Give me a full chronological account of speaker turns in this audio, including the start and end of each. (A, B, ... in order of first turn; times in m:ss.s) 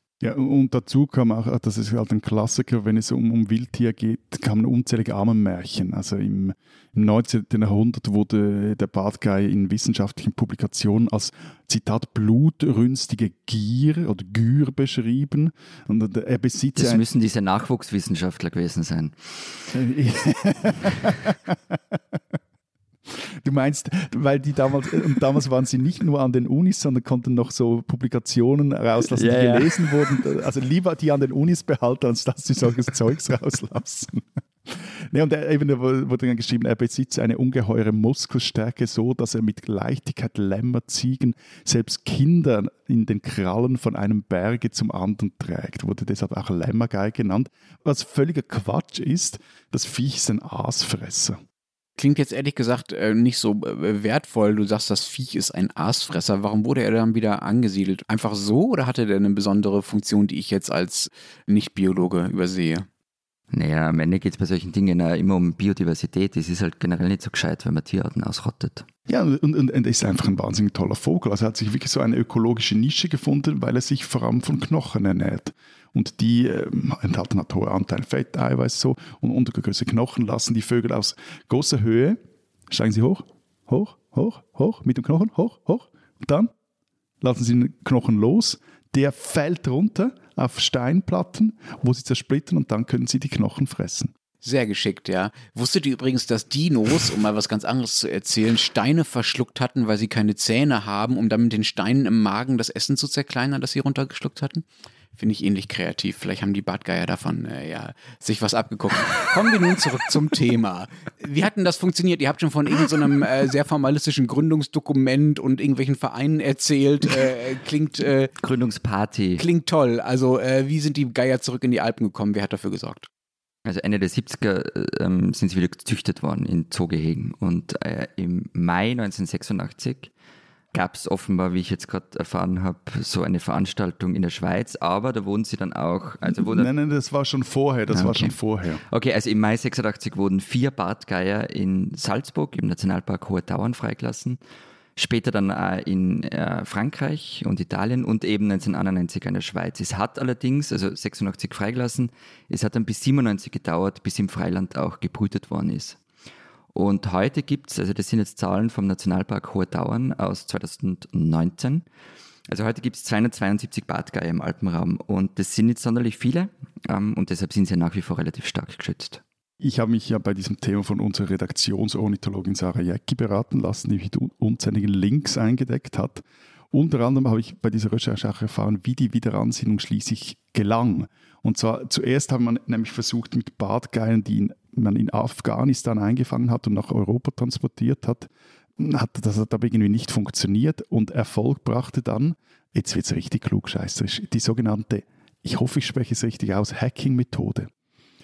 0:00.2-0:17.0 A
0:16.8-0:19.7 B
0:19.7-0:22.2 A
0:23.1-0:51.4 A
0:29.1-0:29.8 B
0:52.0-1:02.9 C
1:03.5-1:08.8 B
1:09.1-1:22.2 A
1:22.7-1:26.5 A
1:27.2-1:34.1 A
1:34.4-1:58.3 C
1:58.4-1:59.4 B
1:59.4-2:03.1 C
2:03.6-2:10.1 B
2:10.7-2:16.7 B
2:16.3-2:18.8 A
2:17.9-2:18.3 B
2:18.9-2:24.4 B
2:25.0-2:36.0 B
2:36.7-2:41.8 B
2:42.5-2:49.2 B
2:49.6-3:17.7 A